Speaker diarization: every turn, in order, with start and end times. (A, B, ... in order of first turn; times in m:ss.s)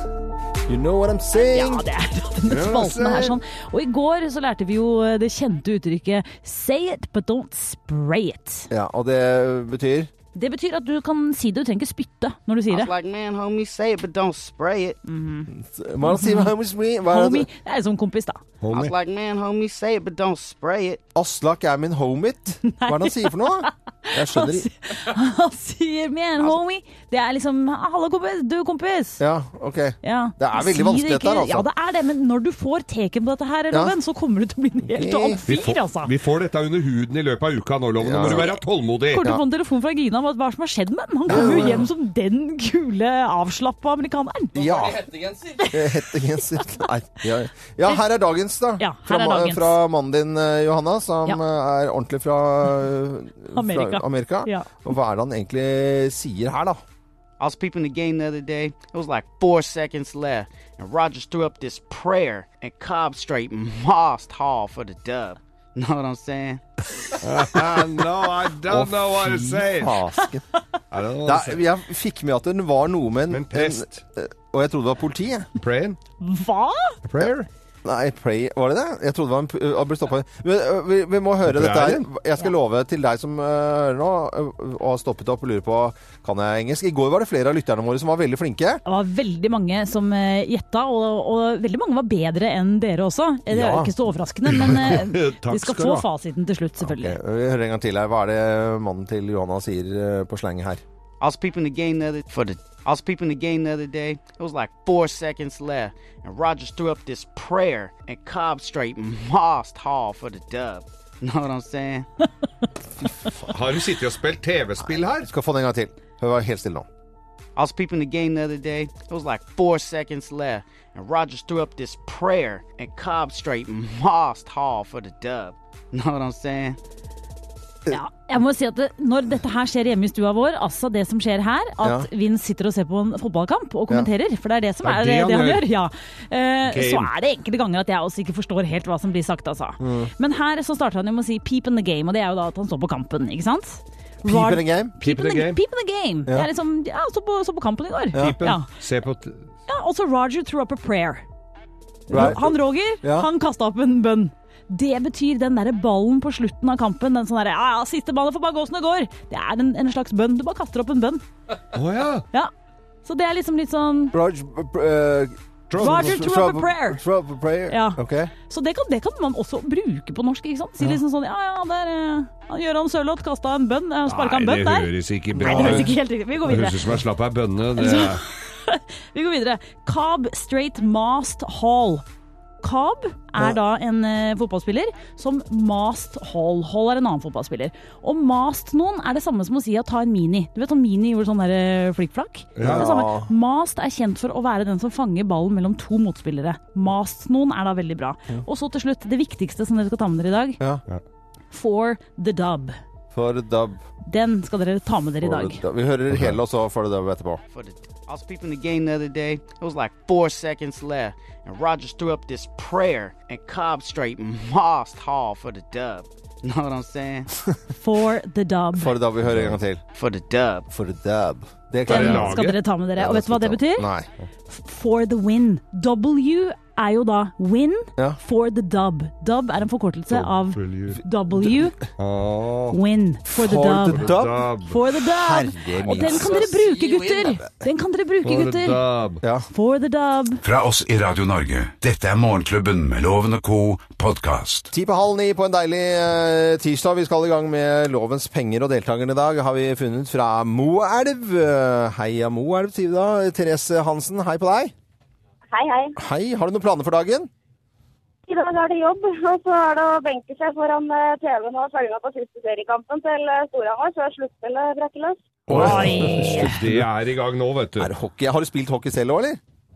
0:00.7-0:01.8 A
0:01.3-0:08.7 B
0:02.5-0:03.3 C
0:08.7-0:10.1 A
0:10.3-0:12.9 B
0:12.7-0:15.0 D
0:15.0-0:15.5 B
0:15.5-0:17.5 A
0:16.0-0:16.5 B
0:17.1-0:18.4 B
0:18.6-0:18.9 C
0:18.7-0:21.0 D
0:21.1-0:24.7 A
0:22.6-0:29.2 B
0:29.2-0:31.7 A
0:30.0-0:36.1 B
0:34.9-0:35.4 A
0:35.5-0:39.2 C
0:38.0-0:38.5 A
0:39.1-0:44.9 B
0:39.1-0:39.4 A
0:41.3-0:41.9 A
0:44.5-0:56.8 A
0:45.6-0:46.1 B
0:48.8-0:49.8 B
0:53.5-0:54.7 B
0:57.4-1:06.6 D
1:07.2-1:10.0 C
1:08.7-1:10.5 A
1:10.9-1:11.6 C
1:11.2-1:15.5 A
1:13.3-1:14.0 C
1:15.6-1:16.0 C
1:16.2-1:17.0 B
1:17.0-1:17.5 C
1:17.8-1:28.8 A
1:21.5-1:22.0 C
1:28.8-1:37.2 B
1:33.5-1:33.9 A
1:34.5-1:36.0 C
1:36.8-1:40.8 A
1:41.2-1:52.1 D
1:53.0-1:53.6 A
1:53.5-1:55.3 C
1:55.1-1:56.9 A
1:57.6-2:06.8 D
2:07.9-2:28.6 B
2:11.8-2:12.1 A
2:14.8-2:15.6 C
2:16.7-2:17.1 C
2:19.8-2:20.1 A
2:24.2-2:24.9 A
2:25.0-2:25.6 C
2:28.1-2:29.4 C
2:29.7-2:31.2 B
2:32.1-2:33.3 A
2:32.1-2:41.2 B
2:41.7-2:42.2 C
2:43.0-2:44.2 B
2:44.1-2:48.3 A
2:45.7-2:46.2 C
2:45.8-2:47.0 B
2:47.7-2:54.9 B
2:54.1-2:58.2 C
2:55.4-2:55.9 A
2:55.4-2:56.8 B
2:57.8-3:02.0 B
3:02.6-3:20.6 B
3:12.6-3:12.9 C
3:12.6-3:13.3 A
3:21.5-3:22.8 B
3:23.1-3:23.8 A
3:24.0-3:25.6 B
3:25.2-3:27.4 A
3:27.5-3:37.3 D
3:37.8-3:39.0 B
3:38.8-3:39.8 A
3:39.3-3:39.6 C
3:39.9-3:40.7 D
3:40.7-3:42.4 A
3:41.9-3:42.6 C
3:41.9-3:43.9 B
3:43.0-3:44.1 A
3:44.5-3:51.8 B
3:50.1-3:51.0 C
3:52.0-3:52.8 C
3:52.7-3:58.8 B
3:53.3-3:56.7 A
3:53.6-3:54.8 C
3:57.2-3:57.4 A
3:58.2-3:59.2 C
3:59.2-3:59.5 A
3:59.5-4:00.4 B
4:00.4-4:04.7 E
4:04.7-4:14.7 A
4:15.5-4:15.9 F
4:16.0-4:17.3 A
4:18.3-4:25.3 F
4:25.5-4:27.9 C
4:25.5-4:26.8 A
4:25.5-4:26.6 B
4:27.8-4:29.4 A